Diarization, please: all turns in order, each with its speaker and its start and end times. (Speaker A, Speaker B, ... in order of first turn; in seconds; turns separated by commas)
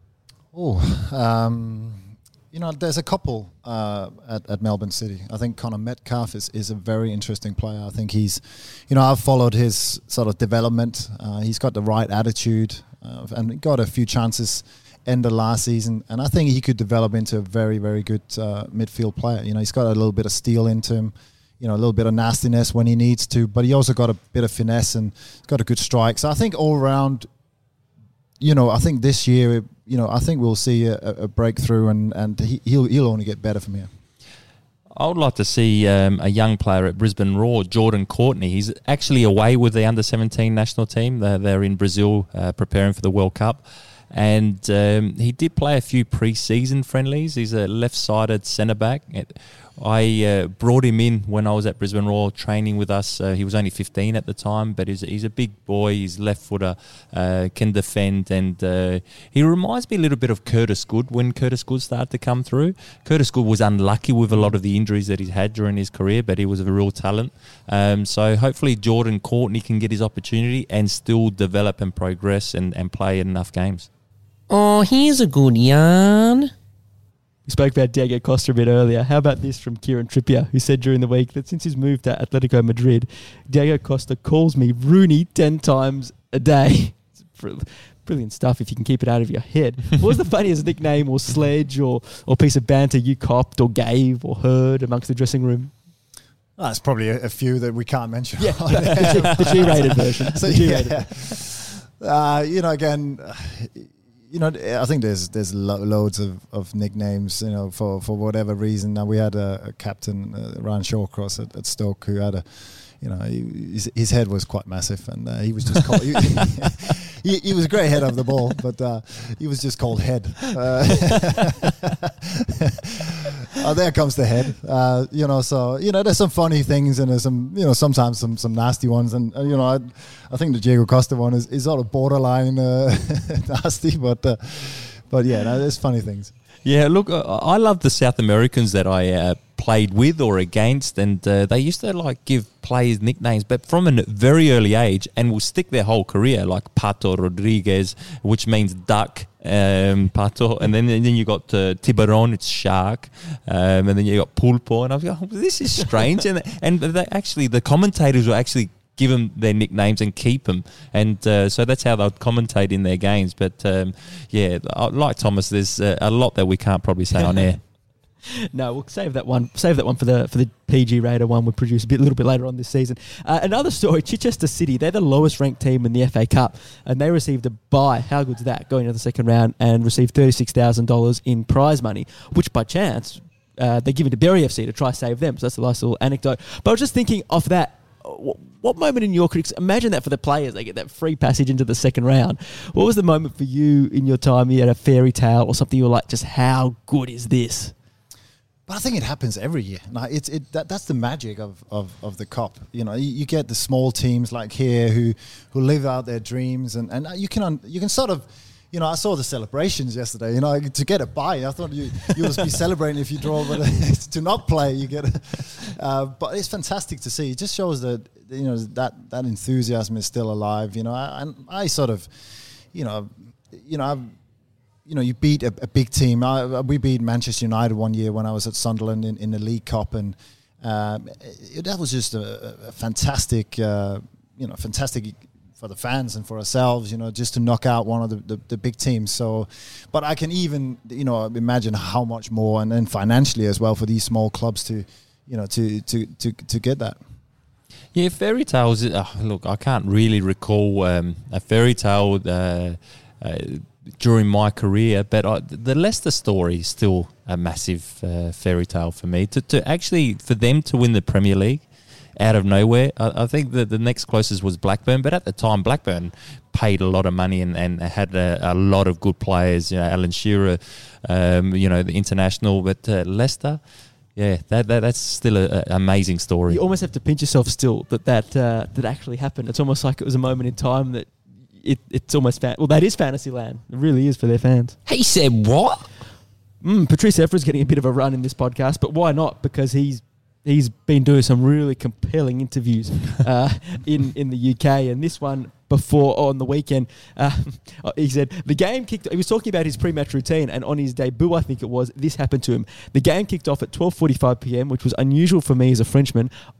Speaker A: 0.5-27.3, Speaker A: 28.4-33.9, Speaker B: 34.9-73.9, Speaker C: 74.5-76.5, Speaker D: 77.5-95.7, Speaker A: 96.6-112.5, Speaker D: 98.4-101.0, Speaker A: 113.0-136.3, Speaker B: 136.7-167.6, Speaker D: 168.5-197.7, Speaker A: 198.7-222.1, Speaker A: 222.7-224.1, Speaker A: 224.9-247.0, Speaker B: 247.9-261.6, Speaker B: 262.2-273.6, Speaker B: 274.2-276.6, Speaker D: 276.5-284.8, Speaker C: 284.9-285.9, Speaker D: 286.6-306.3